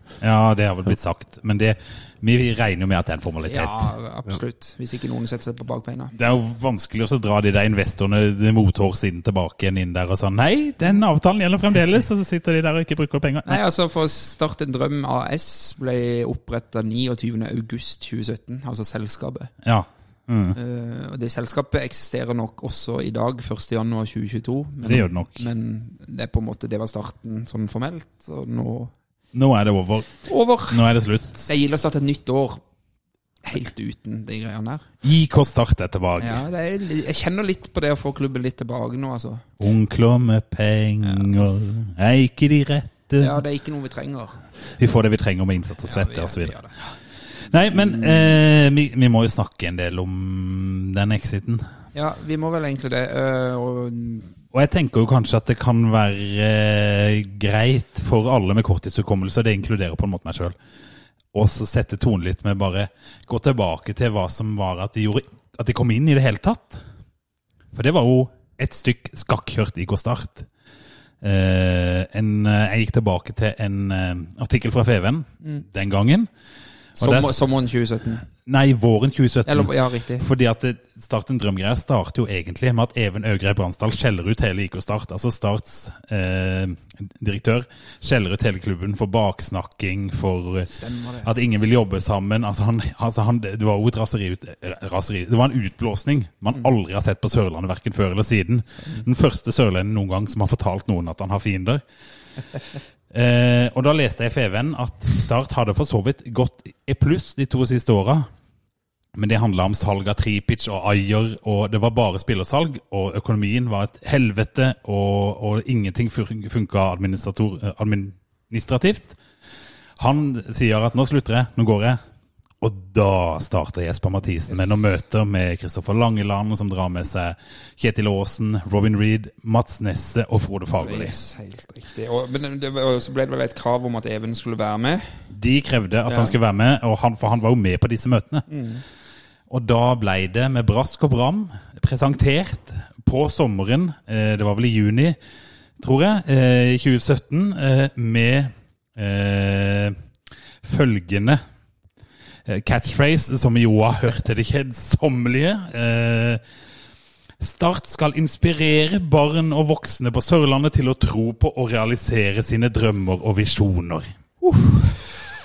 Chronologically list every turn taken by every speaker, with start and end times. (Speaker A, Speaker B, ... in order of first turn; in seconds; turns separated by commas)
Speaker A: 0.2-3.9, Speaker B: 3.4-6.1, Speaker A: 6.1-13.6, Speaker B: 13.4-19.5, Speaker A: 19.6-20.6, Speaker B: 20.5-28.9, Speaker A: 24.8-25.5, Speaker A: 29.3-30.1, Speaker B: 30.3-30.8, Speaker A: 30.7-31.5, Speaker B: 31.5-32.6, Speaker B: 33.4-34.8, Speaker A: 35.0-36.4, Speaker B: 36.2-39.4, Speaker A: 39.6-43.4, Speaker B: 41.0-41.4, Speaker B: 43.2-44.4, Speaker A: 44.8-46.6, Speaker B: 45.8-46.7, Speaker A: 47.4-51.6, Speaker B: 51.9-54.3, Speaker A: 54.5-60.5, Speaker A: 61.3-66.8, Speaker A: 67.7-70.5, Speaker A: 71.2-76.3, Speaker A: 77.0-77.4, Speaker B: 77.0-78.3, Speaker A: 78.4-90.7, Speaker B: 79.5-80.2, Speaker B: 90.7-91.3, Speaker A: 91.2-101.8, Speaker A: 103.1-108.2, Speaker A: 109.2-119.2, Speaker A: 120.0-122.0, Speaker A: 122.6-131.1, Speaker B: 124.5-124.9, Speaker B: 130.8-135.0, Speaker A: 135.3-138.5, Speaker B: 136.1-136.3, Speaker B: 138.5-138.8, Speaker A: 139.5-145.2, Speaker A: 145.8-149.9, Speaker A: 150.6-151.4, Speaker A: 152.5-156.4, Speaker A: 157.4-164.1, Speaker B: 164.4-165.0